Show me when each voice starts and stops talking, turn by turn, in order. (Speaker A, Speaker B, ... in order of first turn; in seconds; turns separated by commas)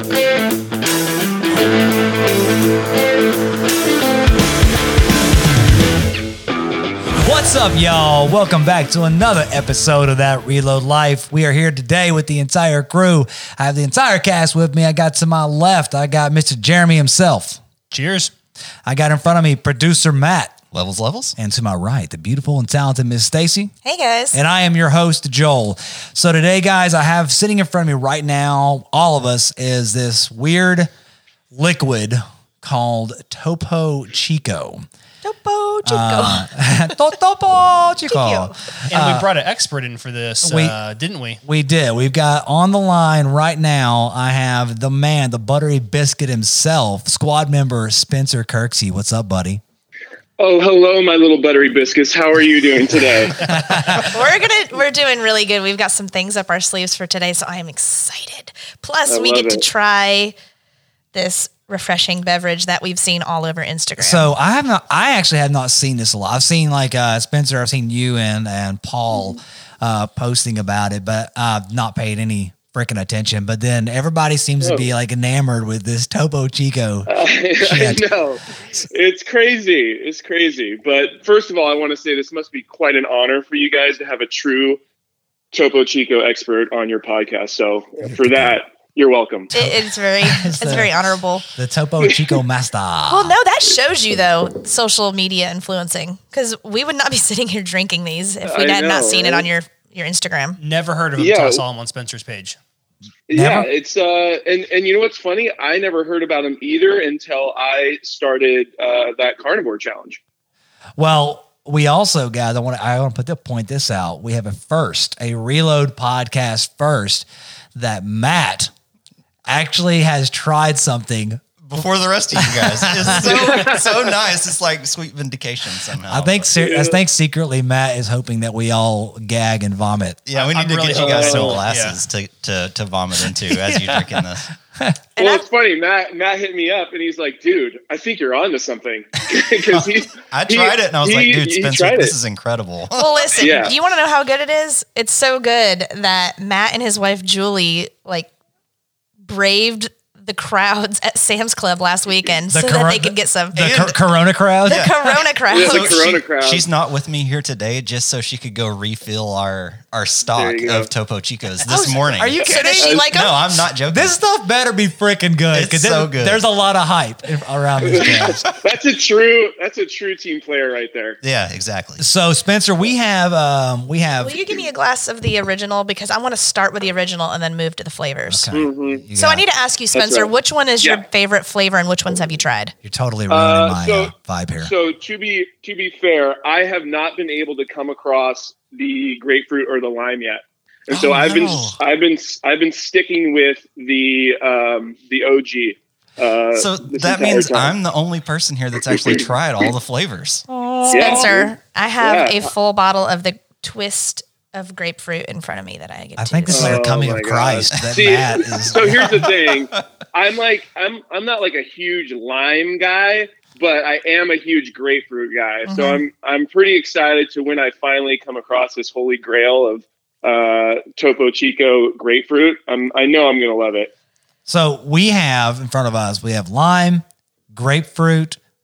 Speaker A: 7.2-17.6, Speaker B: 17.9-18.3, Speaker A: 18.9-20.6, Speaker C: 20.7-21.4, Speaker A: 21.4-23.7, Speaker D: 23.8-24.4, Speaker A: 24.3-30.9, Speaker A: 31.5-34.9, Speaker D: 35.2-36.5, Speaker A: 35.9-39.2, Speaker D: 38.1-38.5, Speaker B: 38.9-41.4, Speaker A: 40.4-40.8, Speaker A: 41.4-49.6, Speaker E: 50.4-53.5, Speaker A: 53.4-54.2, Speaker D: 54.0-60.3, Speaker E: 59.1-59.6, Speaker D: 61.1-64.3, Speaker A: 64.0-78.0, Speaker E: 74.6-74.9, Speaker E: 77.1-84.8, Speaker E: 85.5-89.5, Speaker A: 88.0-88.6, Speaker D: 89.5-91.5, Speaker A: 89.5-91.0, Speaker A: 91.5-93.4, Speaker D: 93.1-100.6, Speaker E: 98.4-99.5, Speaker B: 100.6-102.6, Speaker E: 101.2-101.6, Speaker E: 103.3-110.2, Speaker A: 103.3-103.7, Speaker A: 111.0-118.7, Speaker A: 119.5-121.8, Speaker C: 121.6-126.5, Speaker A: 122.4-123.8, Speaker E: 123.2-123.8, Speaker A: 126.1-130.2, Speaker E: 126.6-127.0, Speaker C: 130.3-134.5, Speaker B: 130.3-132.0, Speaker E: 131.0-131.6, Speaker A: 133.6-134.0, Speaker D: 135.2-135.4, Speaker E: 135.2-142.1, Speaker C: 139.7-143.7, Speaker D: 142.9-148.3, Speaker E: 143.4-143.8, Speaker D: 149.2-153.7, Speaker A: 152.5-154.9, Speaker C: 153.6-154.0, Speaker C: 154.7-164.2, Speaker D: 154.7-156.1, Speaker E: 155.5-156.7, Speaker E: 160.3-160.9, Speaker D: 161.7-163.4, Speaker A: 162.4-163.0, Speaker E: 162.8-163.1, Speaker A: 163.9-168.4, Speaker C: 165.5-166.4, Speaker E: 167.9-171.2, Speaker C: 168.2-168.5, Speaker C: 171.2-172.1, Speaker A: 172.0-174.4, Speaker D: 174.2-178.5, Speaker A: 178.3-179.4, Speaker E: 178.5-179.1, Speaker D: 179.1-182.8, Speaker E: 179.9-181.0, Speaker A: 182.8-184.7, Speaker E: 183.3-197.8, Speaker C: 190.9-191.8, Speaker C: 196.6-200.5, Speaker A: 200.5-201.3, Speaker D: 200.8-206.8, Speaker E: 200.9-202.4, Speaker A: 206.2-209.3, Speaker E: 206.5-223.9, Speaker D: 215.7-216.0, Speaker A: 224.5-228.4